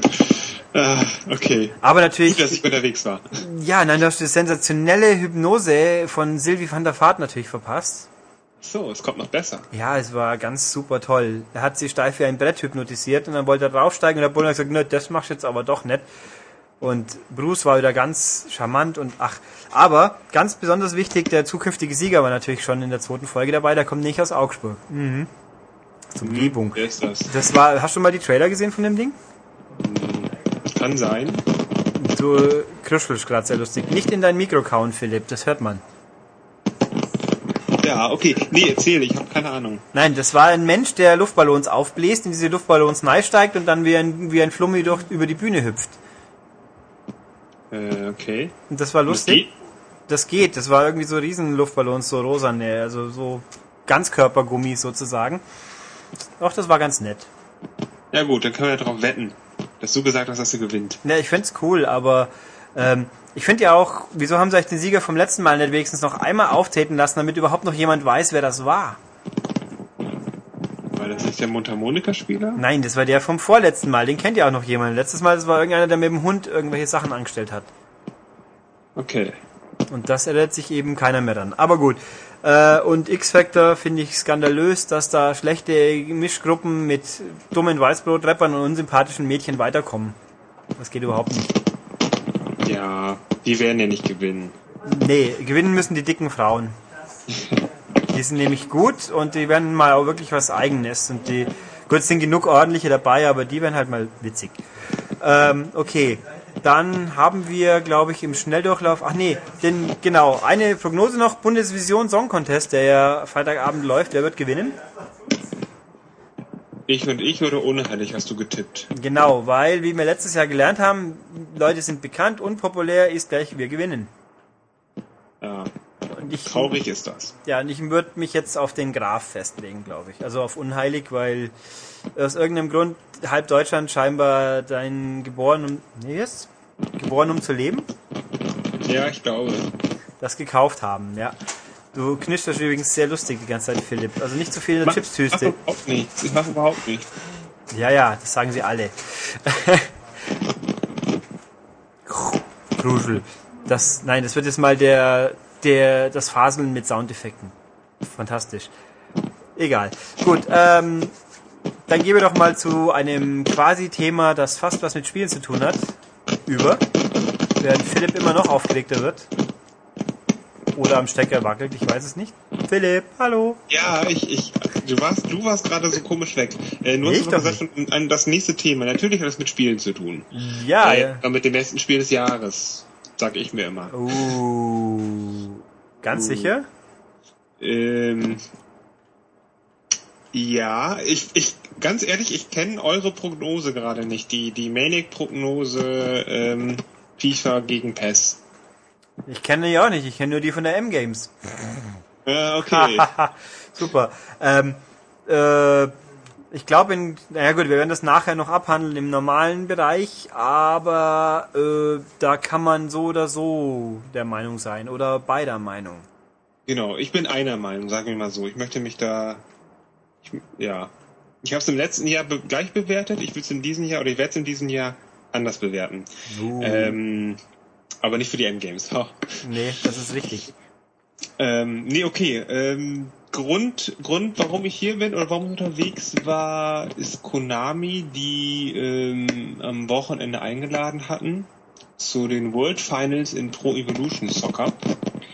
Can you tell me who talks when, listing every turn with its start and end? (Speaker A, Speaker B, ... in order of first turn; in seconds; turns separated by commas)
Speaker A: 0.2-3.4, Speaker B: 1.8-2.6, Speaker B: 3.4-8.1, Speaker A: 8.6-9.7, Speaker B: 9.7-16.1, Speaker B: 16.8-25.3, Speaker B: 26.1-29.2, Speaker A: 26.2-27.3, Speaker A: 29.8-31.4, Speaker B: 32.0-35.8, Speaker A: 37.8-39.8, Speaker B: 39.9-46.0, Speaker A: 47.7-49.5, Speaker B: 48.7-49.5, Speaker B: 50.1-55.4, Speaker B: 56.4-57.3, Speaker A: 58.1-61.0, Speaker B: 61.0-69.0, Speaker A: 70.9-72.6, Speaker B: 72.6-77.7, Speaker A: 79.0-79.4, Speaker B: 79.9-90.2, Speaker B: 90.8-91.6, Speaker A: 92.6-94.6, Speaker B: 94.8-96.8, Speaker A: 97.3-97.6, Speaker B: 98.1-104.6, Speaker B: 105.2-114.8, Speaker A: 116.9-118.9, Speaker B: 118.9-124.1, Speaker A: 125.4-125.7, Speaker B: 126.2-126.8, Speaker A: 126.3-127.3, Speaker B: 127.4-131.5, Speaker B: 132.2-137.9, Speaker A: 138.8-139.7, Speaker B: 140.2-141.4, Speaker B: 141.9-145.6, Speaker A: 144.8-147.2, Speaker B: 147.7-149.9, Speaker B: 152.1-157.5, Speaker B: 158.1-158.7, Speaker B: 159.6-161.1, Speaker B: 161.9-165.9, Speaker B: 166.5-166.9, Speaker B: 167.6-169.3, Speaker B: 170.7-173.6, Speaker A: 173.7-180.3, Speaker B: 177.0-177.6, Speaker B: 180.3-181.2, Speaker A: 180.8-184.3, Speaker B: 183.9-186.7, Speaker A: 186.1-186.5, Speaker A: 187.6-188.4, Speaker A: 190.3-198.4, Speaker B: 199.3-201.3, Speaker A: 202.2-203.1, Speaker B: 202.7-205.9, Speaker B: 206.5-216.1, Speaker A: 216.7-219.4, Speaker A: 220.2-227.4, Speaker B: 226.3-226.9, Speaker A: 228.0-229.3, Speaker B: 229.4-230.5, Speaker A: 231.4-244.9